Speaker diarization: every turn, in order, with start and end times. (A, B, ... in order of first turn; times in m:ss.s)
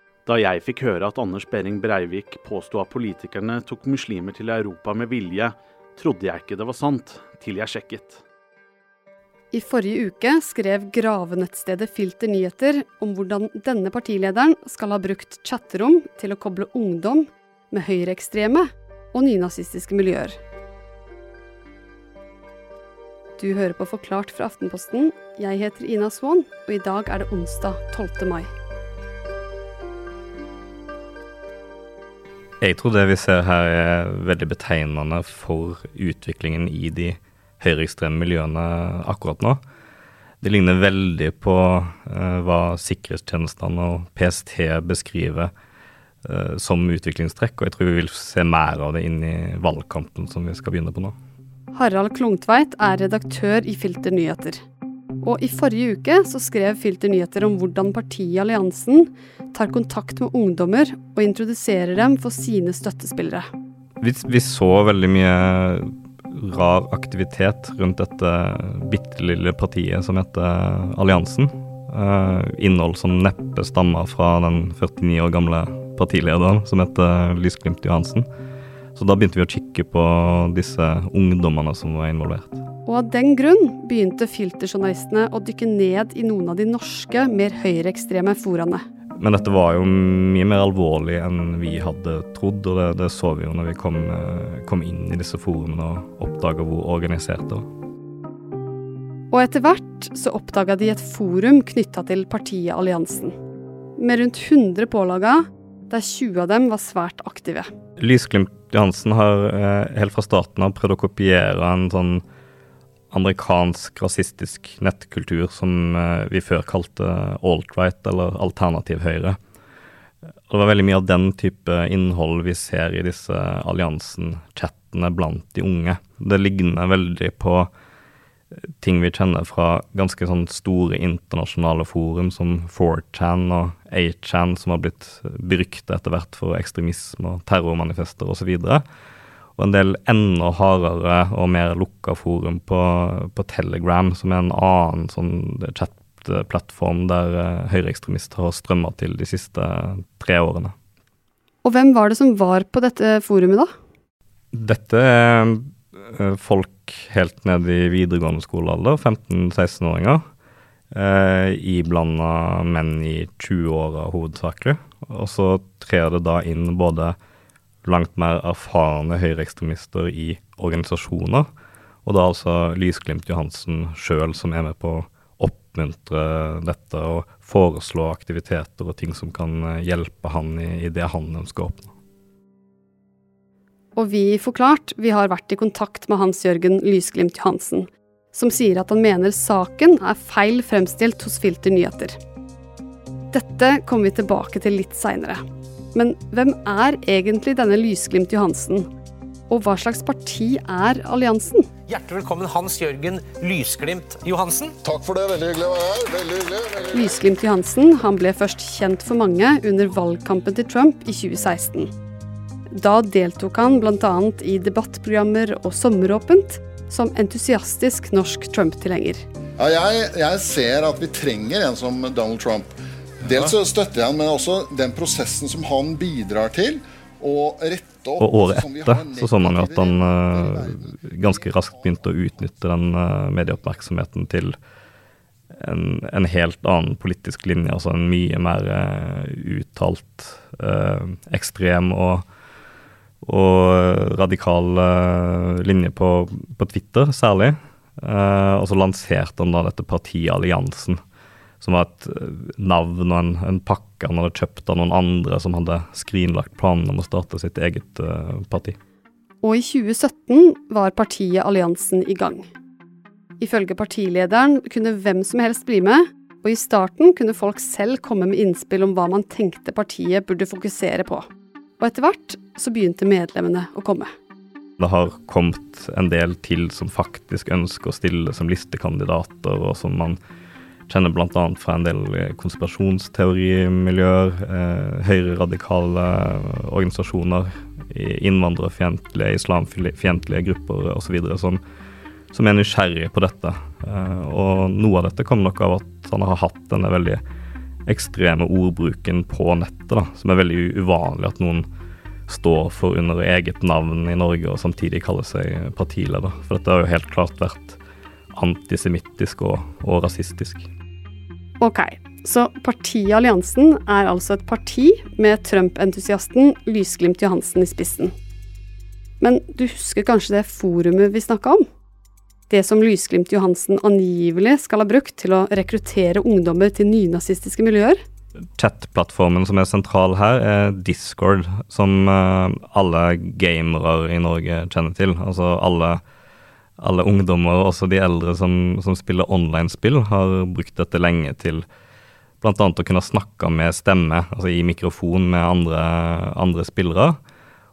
0:00.2-0:08.2 A
0:09.5-0:20.3 B
0:23.4-0:28.5 B
0:32.6-0:39.6 C
0:40.4-0:45.5 C
0:46.2-0:51.1 C
0:51.7-0:54.6 B
0:55.2-1:03.4 B
1:04.0-1:18.2 C
1:19.0-1:22.6 C
1:22.8-1:28.8 B
1:29.2-1:37.6 C
1:39.3-1:43.3 B
1:44.0-1:47.7 B
1:48.0-1:52.2 C
1:53.1-1:59.4 C
2:00.5-2:07.7 C
2:08.8-2:18.8 C
2:19.6-2:30.7 C
2:31.6-2:33.7 B
2:34.5-2:40.2 C
2:40.9-2:47.2 C
2:47.8-2:51.4 C
2:52.0-3:01.9 C
3:04.0-3:12.2 B
3:13.3-3:15.4 B
3:15.9-3:18.9 B
3:19.5-3:21.7 B
3:21.9-3:24.7 D
3:24.8-3:27.0 E
3:26.9-3:31.9 B
3:32.7-3:39.2 B
3:39.6-3:51.7 E
3:48.2-3:54.6 C
3:55.5-4:02.2 C
4:03.2-4:11.0 C
4:11.6-4:18.8 C
4:19.4-4:22.4 B
4:23.4-4:31.2 B
4:31.8-4:34.1 B
4:34.8-4:40.2 C
4:40.9-4:51.6 C
4:52.3-4:57.2 C
4:57.9-5:01.6 C
5:02.3-5:07.8 C
5:08.3-5:10.7 C
5:11.6-5:18.1 B
5:19.2-5:21.6 B
5:22.5-5:28.0 B
5:28.6-5:36.0 C
5:36.8-5:41.6 C
5:42.4-5:47.2 C